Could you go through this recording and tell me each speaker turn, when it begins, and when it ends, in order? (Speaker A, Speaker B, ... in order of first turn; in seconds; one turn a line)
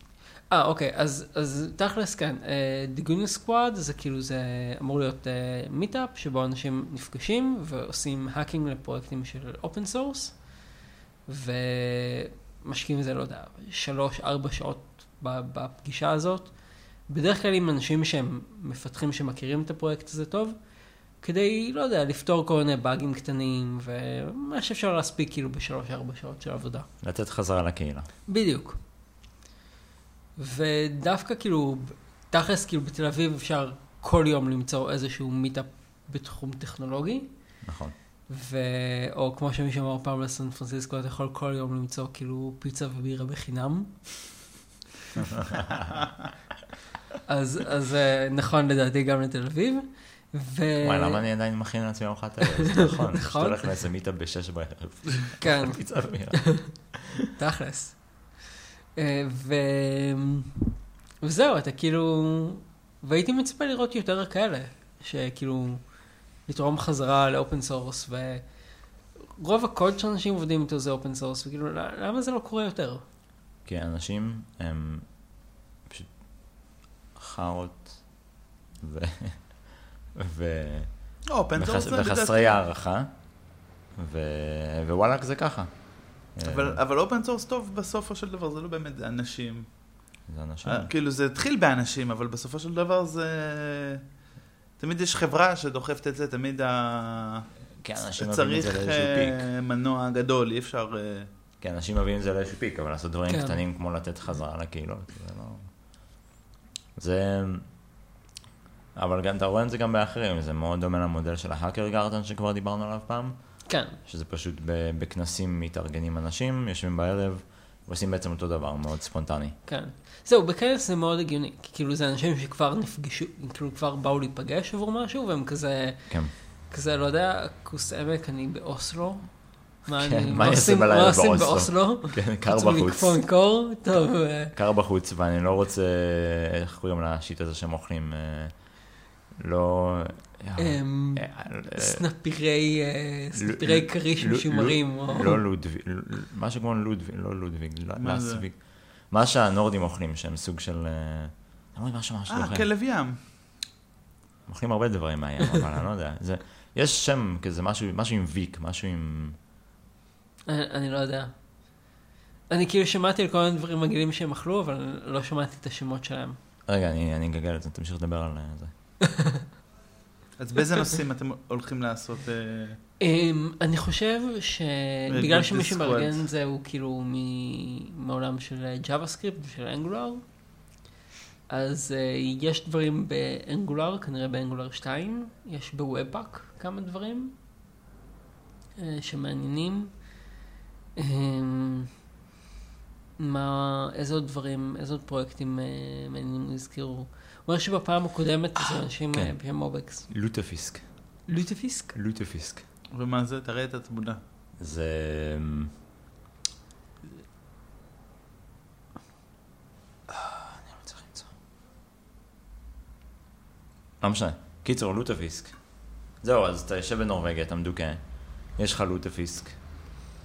Speaker A: 0.5-10.5
Speaker A: 11.3-26.9
Speaker B: 27.0-28.1
Speaker A: 28.3-28.8
Speaker A: 30.4-37.6
Speaker B: 37.6-38.0
Speaker A: 38.3-44.1
Speaker B: 45.5-45.9
Speaker A: 47.3-51.2
Speaker B: 50.8-57.0
Speaker A: 52.8-53.8
Speaker A: 55.4-58.4
Speaker A: 59.0-60.5
Speaker A: 61.2-68.7
Speaker A: 69.4-73.0
Speaker B: 73.7-86.8
Speaker C: 81.3-82.6
Speaker C: 86.5-90.0
Speaker B: 90.3-90.9
Speaker C: 90.7-94.0
Speaker C: 94.8-97.5
Speaker B: 97.8-99.5
Speaker C: 98.0-101.3
Speaker B: 101.6-105.7
Speaker A: 103.3-103.6
Speaker B: 107.0-107.8
Speaker B: 109.0-119.6
Speaker A: 113.7-114.0
Speaker A: 119.7-134.5
Speaker B: 126.1-126.3
Speaker B: 130.0-133.3
Speaker B: 134.0-142.1
Speaker A: 140.6-145.4
Speaker B: 143.4-152.7
Speaker C: 148.0-148.4
Speaker C: 152.3-153.6
Speaker B: 154.5-159.4
Speaker A: 160.5-161.9
Speaker A: 162.5-166.4
Speaker B: 166.7-168.7
Speaker C: 170.4-172.8
Speaker A: 173.0-180.2
Speaker C: 175.1-176.3
Speaker A: 181.5-187.3
Speaker A: 188.8-190.1
Speaker A: 191.0-191.9
Speaker A: 193.2-200.1
Speaker B: 199.1-201.3
Speaker A: 201.3-202.0
Speaker B: 201.9-202.7
Speaker C: 202.9-204.2
Speaker B: 204.6-205.7
Speaker B: 210.1-211.3
Speaker B: 214.0-220.0